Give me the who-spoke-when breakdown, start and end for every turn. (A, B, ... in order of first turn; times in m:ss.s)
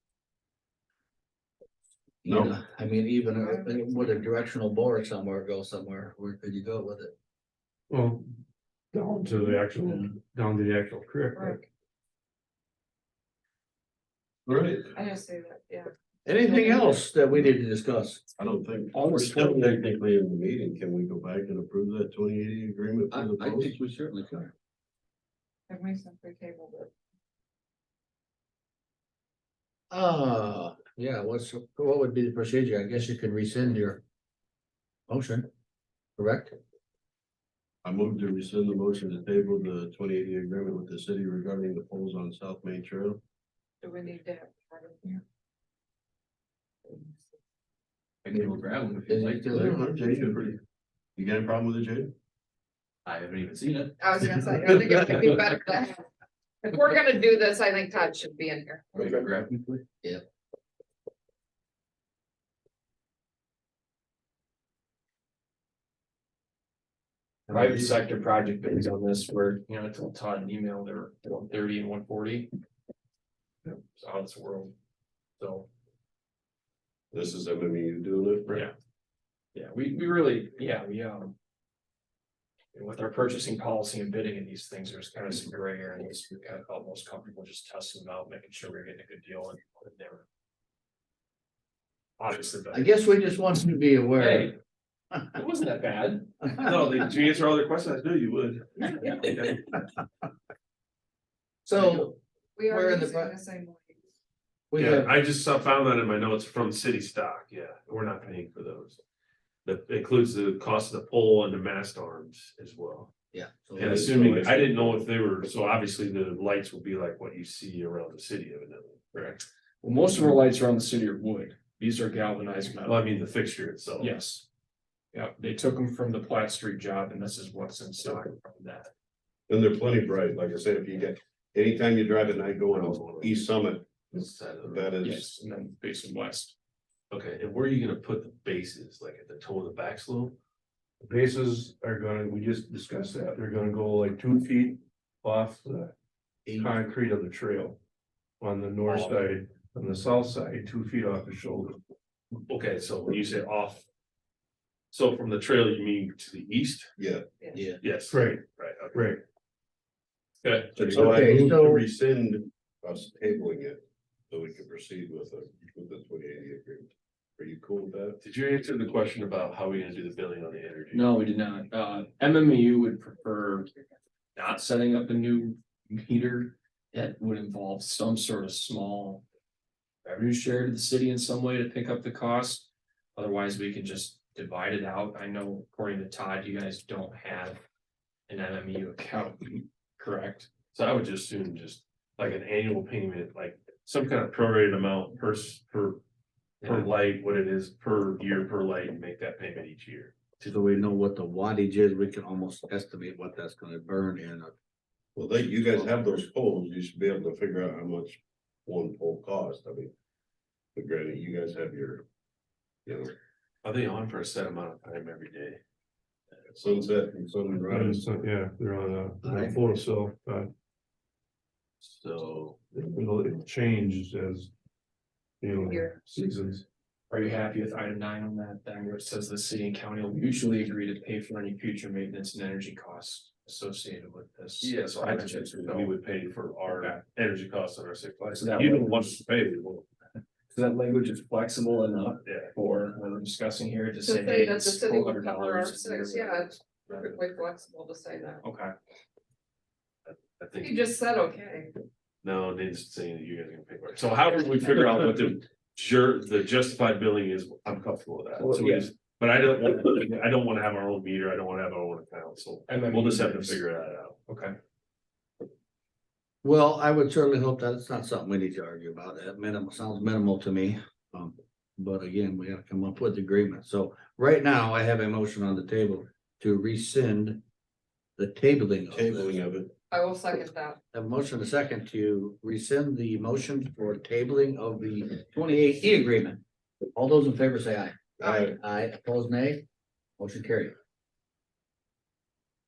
0:02.2-0:07.1 A
0:02.2-0:02.6 B
0:03.4-0:04.1 C
0:07.9-0:08.3 D
0:08.9-0:11.6 D
0:11.3-0:11.6 C
0:14.4-0:15.0 B
0:14.9-0:17.0 C
0:16.2-0:18.2 A
0:18.4-0:23.8 B
0:18.9-0:19.9 E
0:23.1-0:24.5 A
0:25.7-0:26.9 C
0:29.9-0:34.0 A
0:35.1-0:35.5 A
0:36.2-0:36.6 A
0:37.8-0:43.2 B
0:43.8-0:45.2 C
0:46.8-0:47.2 C
0:48.3-0:49.5 E
0:48.3-0:49.2 F
0:49.1-0:49.8 A
0:49.5-0:50.6 B
0:51.2-0:52.1 B
0:53.1-0:53.8 E
0:53.3-0:53.9 F
0:54.0-0:56.0 C
0:56.6-0:59.1 C
0:59.1-0:59.5 F
1:07.5-1:12.5 E
1:13.6-1:14.7 E
1:15.4-1:15.7 E
1:17.1-1:18.6 B
1:18.5-1:18.7 E
1:19.5-1:21.3 E
1:22.7-1:30.2 E
1:32.2-1:32.9 E
1:32.7-1:34.6 A
1:34.2-1:34.6 E
1:35.3-1:36.6 E
1:36.6-1:39.7 G
1:41.6-1:42.2 A
1:42.6-1:44.0 C
1:42.7-1:43.3 A
1:44.7-1:45.1 A
1:44.8-1:49.0 G
1:49.6-1:53.1 G
1:53.3-1:54.4 A
1:53.7-1:59.3 G
1:53.8-1:54.6 B
1:59.1-2:03.1 E
2:02.8-2:04.2 G
2:04.0-2:04.4 E
2:05.1-2:08.9 E
2:09.5-2:13.9 B
2:12.6-2:13.5 G
2:14.0-2:15.0 G
2:14.6-2:15.3 B
2:15.0-2:16.5 E
2:17.1-2:20.4 G
2:21.0-2:25.9 D
2:26.4-2:26.8 A
2:26.5-2:27.8 D
2:28.4-2:31.8 D
2:28.9-2:29.2 G
2:32.4-2:33.8 G
2:34.9-2:36.9 G
2:37.0-2:37.2 B
2:37.4-2:37.7 C
2:37.8-2:39.0 G
2:38.1-2:39.2 D
2:40.4-2:41.3 G
2:40.8-2:48.2 B
2:40.9-2:41.8 A
2:48.2-2:51.1 G
2:50.9-2:53.7 E
2:54.4-2:59.2 E
3:00.0-3:07.6 E
3:08.3-3:10.5 E
3:10.7-3:16.0 G
3:16.6-3:20.5 G
3:20.4-3:24.5 A
3:25.2-3:29.9 B
3:30.7-3:32.0 B
3:32.8-3:33.1 B
3:33.6-3:35.6 G
3:36.5-3:38.0 B
3:37.6-3:40.5 D
3:39.2-3:39.5 A
3:41.8-3:42.6 G
3:42.7-3:44.5 D
3:45.4-3:46.6 D
3:45.6-3:46.0 C
3:47.1-3:55.9 E
3:54.6-3:59.9 G
3:56.7-3:57.0 E
3:58.3-3:59.1 E
4:00.5-4:07.0 E
4:02.2-4:02.5 G
4:04.0-4:08.4 C
4:08.4-4:08.7 E
4:10.0-4:10.8 G
4:10.6-4:11.7 C
4:12.2-4:24.2 G
4:18.4-4:18.8 E
4:22.7-4:23.6 E
4:24.3-4:24.6 E
4:26.4-4:37.4 A
4:38.2-4:39.3 A
4:38.9-4:39.7 B
4:39.9-4:40.8 C
4:40.9-4:46.4 A
4:46.9-4:49.6 A
4:48.2-4:48.5 B
4:48.2-4:48.5 C
4:50.2-4:50.7 A